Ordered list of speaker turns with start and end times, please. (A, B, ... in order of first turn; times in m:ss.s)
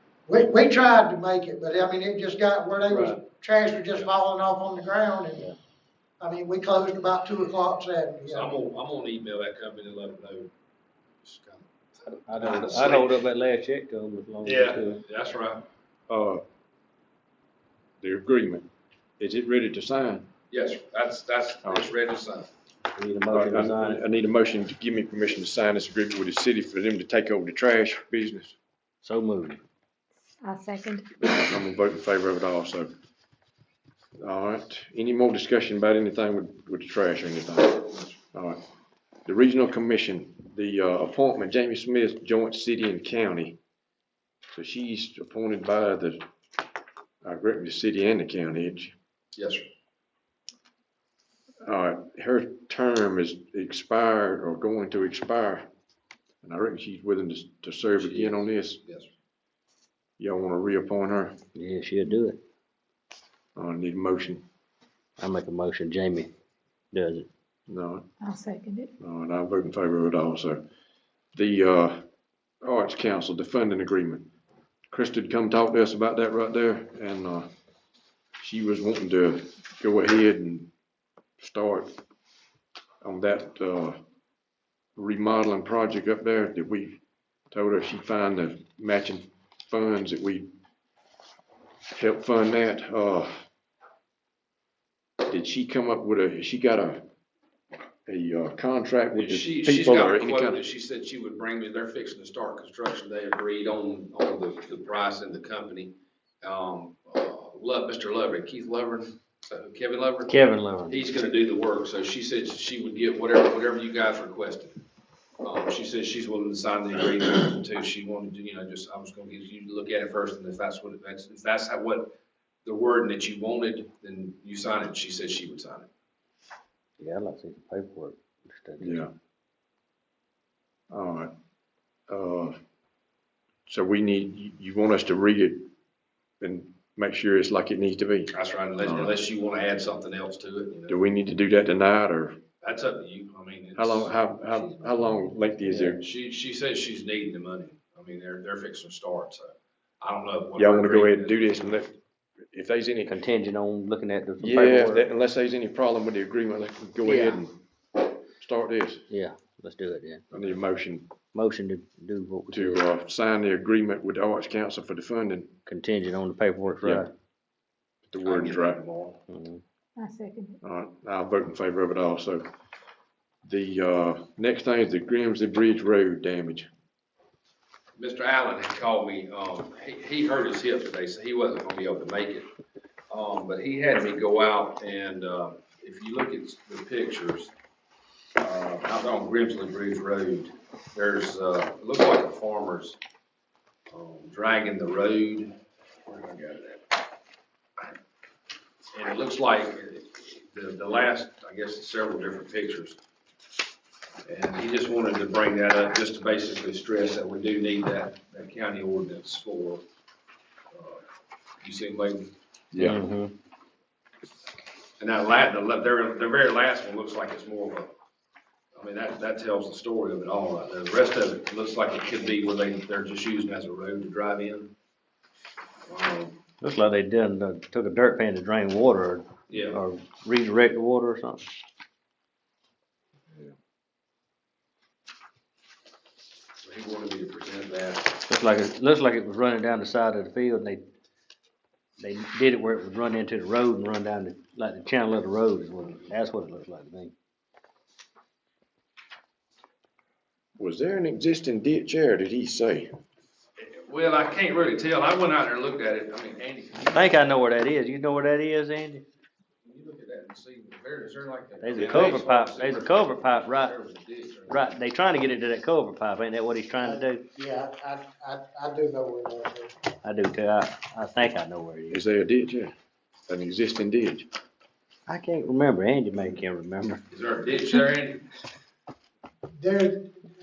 0:00.3-0:05.5 A
0:06.2-0:08.6 A
0:08.3-0:10.5 B
0:11.2-0:13.2 B
0:12.3-0:15.0 C
0:14.4-0:15.7 B
0:16.1-0:16.4 D
0:18.0-0:20.3 D
0:20.5-0:22.5 B
0:21.6-0:21.9 D
0:23.0-0:24.0 C
0:23.3-0:28.6 D
0:29.0-0:29.6 C
0:30.4-0:31.1 E
0:31.2-0:32.9 D
0:34.2-0:38.6 D
0:37.9-0:38.2 B
0:39.2-0:43.6 D
0:44.5-0:46.2 D
0:47.2-0:49.0 D
0:49.4-0:49.7 B
0:51.6-0:55.7 D
0:56.4-0:58.8 D
0:58.0-0:59.1 B
1:00.2-1:01.4 D
1:01.6-1:02.4 C
1:03.6-1:04.4 D
1:05.2-1:06.3 C
1:06.9-1:07.3 C
1:07.7-1:08.1 D
1:08.2-1:08.9 E
1:09.0-1:10.6 D
1:11.4-1:12.1 D
1:12.6-1:14.3 D
1:14.9-1:17.5 D
1:18.4-1:20.7 D
1:21.4-1:22.0 D
1:23.0-1:24.0 D
1:25.0-1:30.5 D
1:31.9-1:33.5 D
1:35.3-1:37.0 D
1:38.1-1:40.6 D
1:39.1-1:54.8 B
1:50.3-1:51.0 C
1:55.4-2:02.1 B
2:02.6-2:05.9 B
2:07.0-2:09.1 C
2:08.8-2:09.1 D
2:10.9-2:11.3 D
2:12.1-2:12.6 D
2:13.7-2:15.7 D
2:16.4-2:19.2 D
2:18.3-2:21.0 B
2:20.9-2:22.4 D
2:22.6-2:24.7 B
2:23.8-2:26.0 D
2:25.7-2:26.0 C
2:25.9-2:31.8 B
2:30.6-2:31.9 D
2:32.5-2:33.1 D
2:33.0-2:35.1 C
2:34.4-2:37.6 D
2:37.0-2:37.4 C
2:38.4-2:39.1 D
2:39.1-2:40.2 C
2:40.3-2:41.1 D
2:41.3-2:42.8 C
2:42.5-2:45.6 D
2:45.7-2:47.1 C
2:46.8-2:47.1 D
2:48.1-2:48.8 D
2:48.2-2:49.2 B
2:49.3-2:49.6 C
2:50.0-2:50.6 E
2:50.6-2:52.5 D
2:53.4-2:56.7 D
2:58.0-3:02.5 B
3:03.1-3:07.5 B
3:08.4-3:13.0 B
3:13.9-3:15.5 B
3:16.1-3:16.9 B
3:18.9-3:23.0 B
3:24.3-3:29.8 B
3:30.7-3:31.0 B
3:31.6-3:32.3 B
3:32.7-3:33.0 D
3:32.8-3:33.3 C
3:35.0-3:37.9 B
3:38.8-3:44.7 B
3:45.9-3:46.4 B
3:46.6-3:51.4 C
3:49.5-3:49.8 B
3:56.6-3:58.2 B
3:58.2-4:00.8 C
4:02.0-4:07.1 C
4:10.6-4:12.9 D
4:13.6-4:17.3 B
4:16.9-4:19.0 C
4:19.6-4:24.8 B
4:21.6-4:23.7 C
4:24.5-4:27.2 C
4:26.8-4:29.7 A
4:30.0-4:32.0 C
4:31.9-4:32.7 D
4:33.3-4:34.3 D
4:35.1-4:37.0 C
4:37.1-4:38.2 B
4:39.6-4:40.0 A